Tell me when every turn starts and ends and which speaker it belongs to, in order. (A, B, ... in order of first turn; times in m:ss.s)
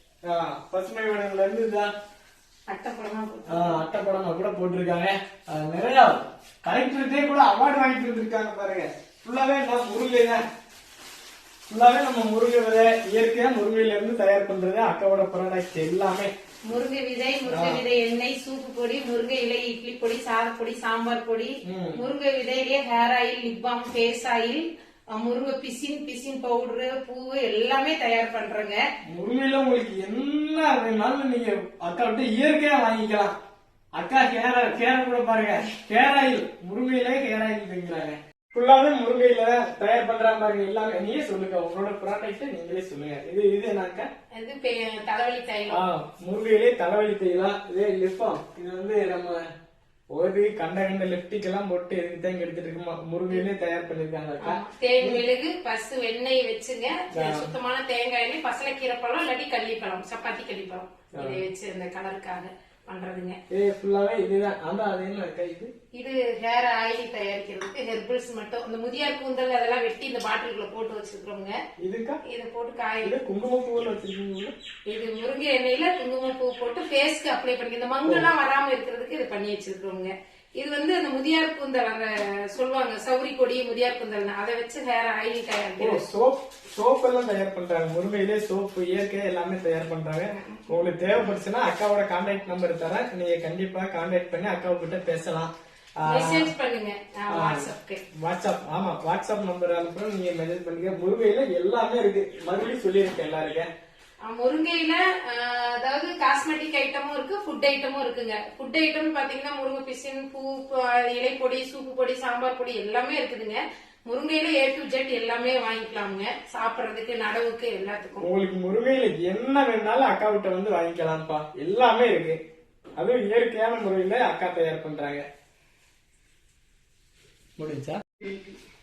0:00.2-0:01.9 A
0:02.7-0:03.8 B
0:03.5-0:10.4 A
0:11.7-0:16.3 A
0:16.7-0:28.8 B
0:17.5-0:17.8 A
0:21.6-0:22.0 A
0:29.1-0:33.4 A
0:34.0-0:44.1 A
0:44.3-0:45.8 B
0:45.7-0:49.4 A
0:50.1-0:55.2 A
0:54.4-1:03.4 B
0:57.1-0:57.5 A
1:01.1-1:01.4 A
1:03.5-1:05.7 A
1:05.9-1:11.6 B
1:11.8-1:12.2 A
1:12.2-1:13.1 B
1:13.0-1:14.5 A
1:14.9-1:26.0 B
1:25.8-1:36.5 A
1:30.4-1:30.6 B
1:36.0-1:38.0 B
1:37.3-1:43.7 A
1:44.2-1:58.3 B
1:58.2-2:02.4 A
2:03.0-2:05.2 A
2:07.6-2:08.3 A